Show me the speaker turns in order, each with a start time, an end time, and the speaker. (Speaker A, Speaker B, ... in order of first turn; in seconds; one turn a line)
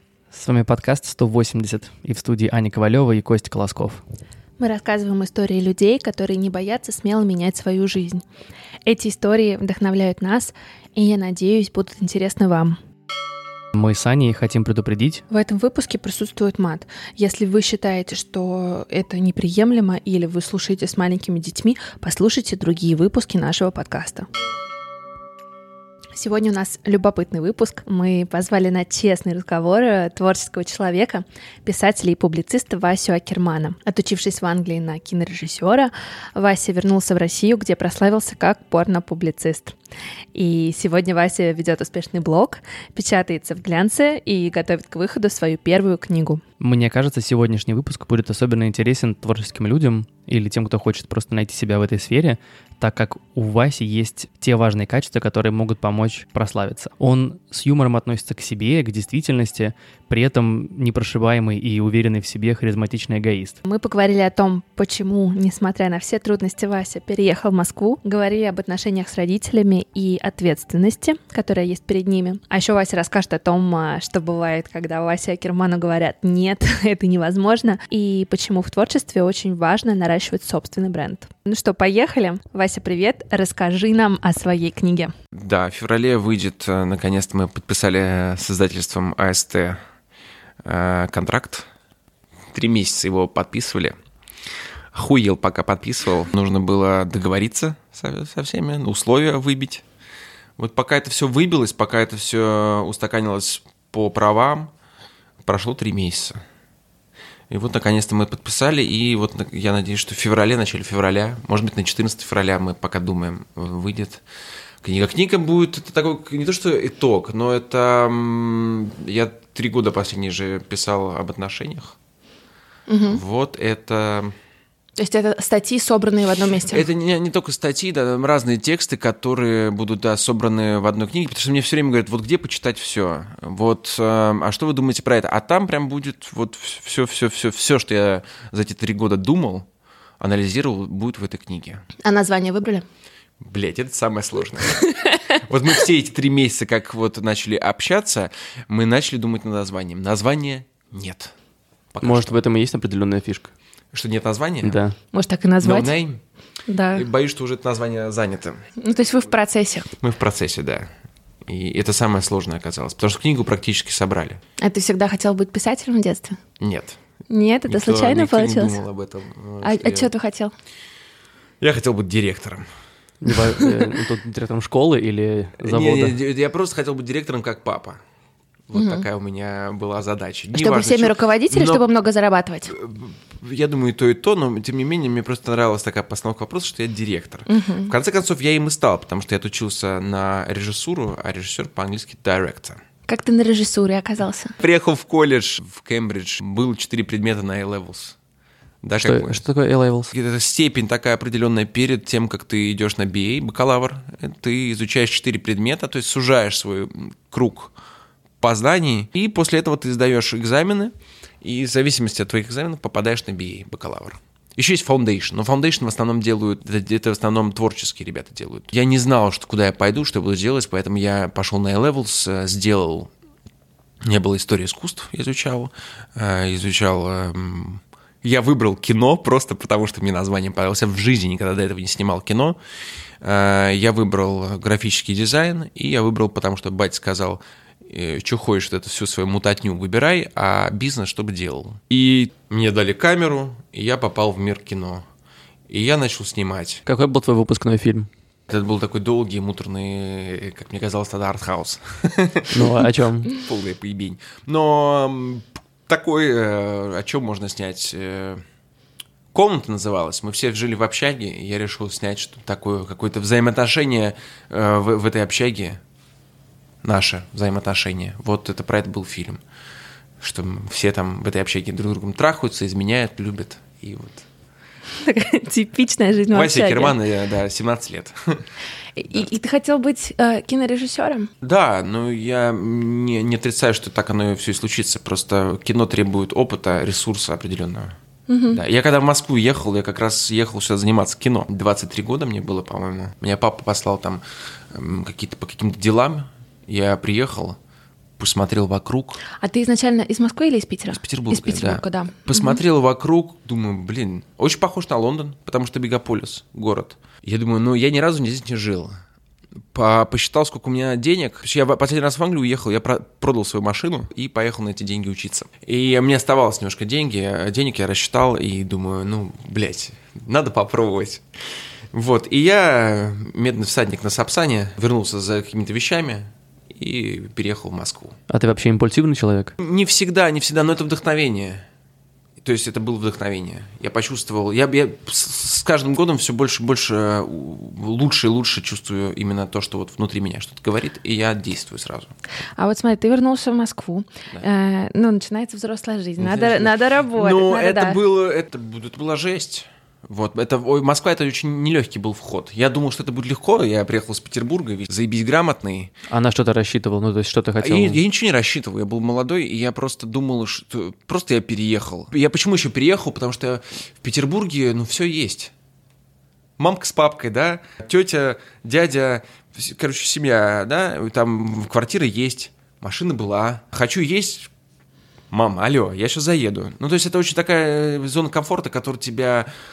Speaker A: 0.3-4.0
Speaker B: 4.6-8.2
Speaker B: 8.8-12.8
Speaker A: 13.7-15.2
Speaker B: 15.3-24.3
Speaker B: 26.1-39.8
Speaker B: 40.3-46.4
Speaker A: 46.6-63.6
Speaker B: 63.6-85.1
Speaker C: 85.3-89.8
Speaker C: 90.6-91.7
Speaker C: 92.5-94.0
Speaker C: 94.9-99.8
Speaker C: 100.6-104.7
Speaker C: 105.4-106.4
Speaker C: 107.5-114.2
Speaker C: 114.8-122.0
Speaker B: 122.9-123.2
Speaker C: 123.1-124.3
Speaker B: 125.0-126.8
Speaker C: 126.7-139.7
Speaker C: 140.2-141.8
Speaker B: 142.0-142.8
Speaker C: 143.4-144.8
Speaker B: 144.7-145.4
Speaker C: 145.4-151.3
Speaker C: 151.9-152.3
Speaker A: 152.0-153.5
Speaker C: 153.9-154.8
Speaker A: 154.6-154.9
Speaker B: 155.1-155.9
Speaker C: 155.6-156.2
Speaker B: 156.7-157.1
Speaker C: 156.9-158.6
Speaker B: 158.8-159.9
Speaker C: 160.0-160.9
Speaker C: 161.4-164.4
Speaker B: 164.6-166.4
Speaker C: 166.6-167.0
Speaker B: 167.3-168.8
Speaker C: 167.7-170.1
Speaker B: 169.6-170.5
Speaker C: 171.6-172.7
Speaker A: 173.2-176.2
Speaker B: 173.6-173.9
Speaker C: 175.6-178.0
Speaker C: 178.7-181.8
Speaker B: 178.7-179.0
Speaker B: 180.5-182.7
Speaker C: 182.7-192.8
Speaker B: 187.5-187.9
Speaker B: 193.1-194.5
Speaker C: 194.6-198.2
Speaker C: 198.8-199.4
Speaker A: 199.0-200.1
Speaker C: 200.1-207.7
Speaker C: 208.4-223.1
Speaker C: 224.0-232.6
Speaker C: 233.2-245.1
Speaker C: 245.7-246.8
Speaker A: 246.8-248.1
Speaker C: 248.5-252.8
Speaker A: 252.5-253.3
Speaker C: 253.3-258.4
Speaker C: 259.3-265.8
Speaker C: 266.8-269.4
Speaker C: 270.2-274.2
Speaker B: 275.0-276.9
Speaker C: 276.3-278.4
Speaker B: 278.9-281.3
Speaker C: 281.4-287.9
Speaker B: 288.3-288.6
Speaker C: 288.5-297.6
Speaker C: 298.2-299.2
Speaker B: 299.4-302.6
Speaker C: 300.9-308.9
Speaker C: 309.7-321.2
Speaker C: 321.9-328.1
Speaker A: 328.3-329.5
Speaker C: 329.6-331.6
Speaker C: 332.4-342.1
Speaker B: 342.6-348.0
Speaker C: 346.2-355.9
Speaker A: 356.1-358.0
Speaker C: 357.6-365.5
Speaker C: 366.6-374.5
Speaker C: 375.3-379.5